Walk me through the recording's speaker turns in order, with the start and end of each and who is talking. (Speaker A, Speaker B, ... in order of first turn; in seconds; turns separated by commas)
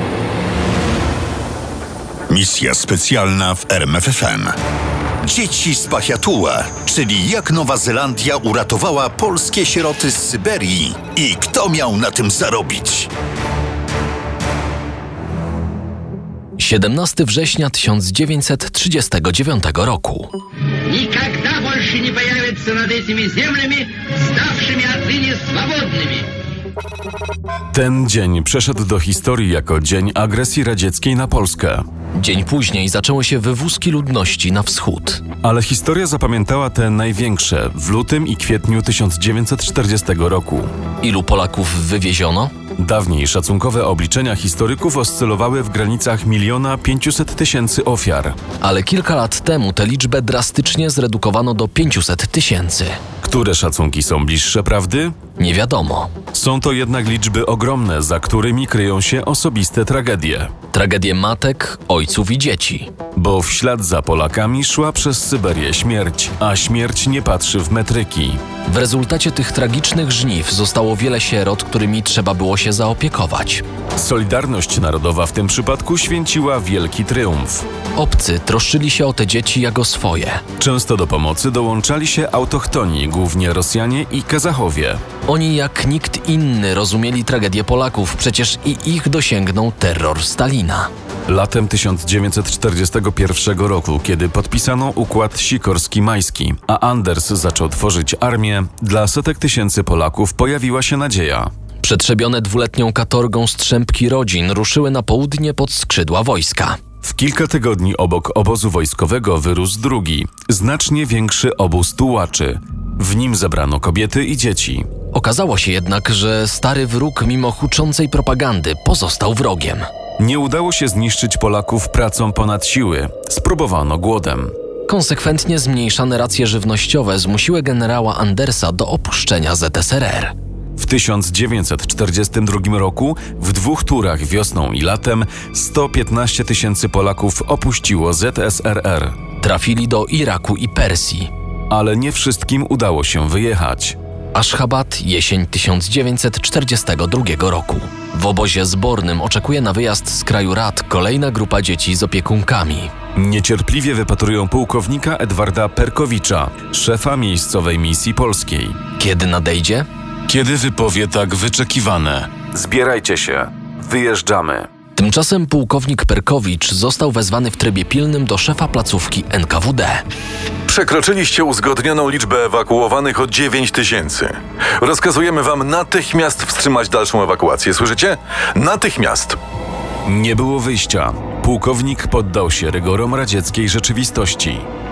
Speaker A: 2.3-4.5, Speaker A: 5.2-13.1, Speaker B: 16.6-20.3, Speaker C: 20.9-26.3, Speaker D: 27.7-31.9, Speaker B: 32.2-35.2, Speaker D: 35.4-40.7, Speaker B: 41.0-42.5, Speaker D: 42.8-48.4, Speaker B: 48.6-53.0, Speaker D: 53.2-55.1, Speaker B: 55.4-56.1, Speaker D: 56.3-60.5, Speaker B: 60.7-62.9, Speaker D: 63.2-68.4, Speaker B: 68.7-73.6, Speaker D: 74.0-77.7, Speaker B: 78.0-80.4, Speaker D: 80.6-85.0, Speaker B: 85.3-90.9, Speaker D: 91.3-101.5, Speaker B: 101.8-106.8, Speaker D: 107.0-114.9, Speaker B: 115.1-119.9, Speaker D: 120.2-124.5, Speaker B: 124.9-130.3, Speaker D: 130.8-139.2, Speaker B: 139.4-141.3, Speaker D: 141.7-144.0, Speaker B: 144.3-152.9, Speaker D: 153.2-158.8, Speaker B: 159.0-159.9, Speaker D: 160.3-164.7, Speaker B: 165.0-170.0, Speaker E: 170.7-179.4, Speaker D: 171.1-171.8, Speaker D: 173.4-173.9, Speaker D: 174.9-175.8, Speaker D: 176.5-176.8, Speaker D: 180.1-184.7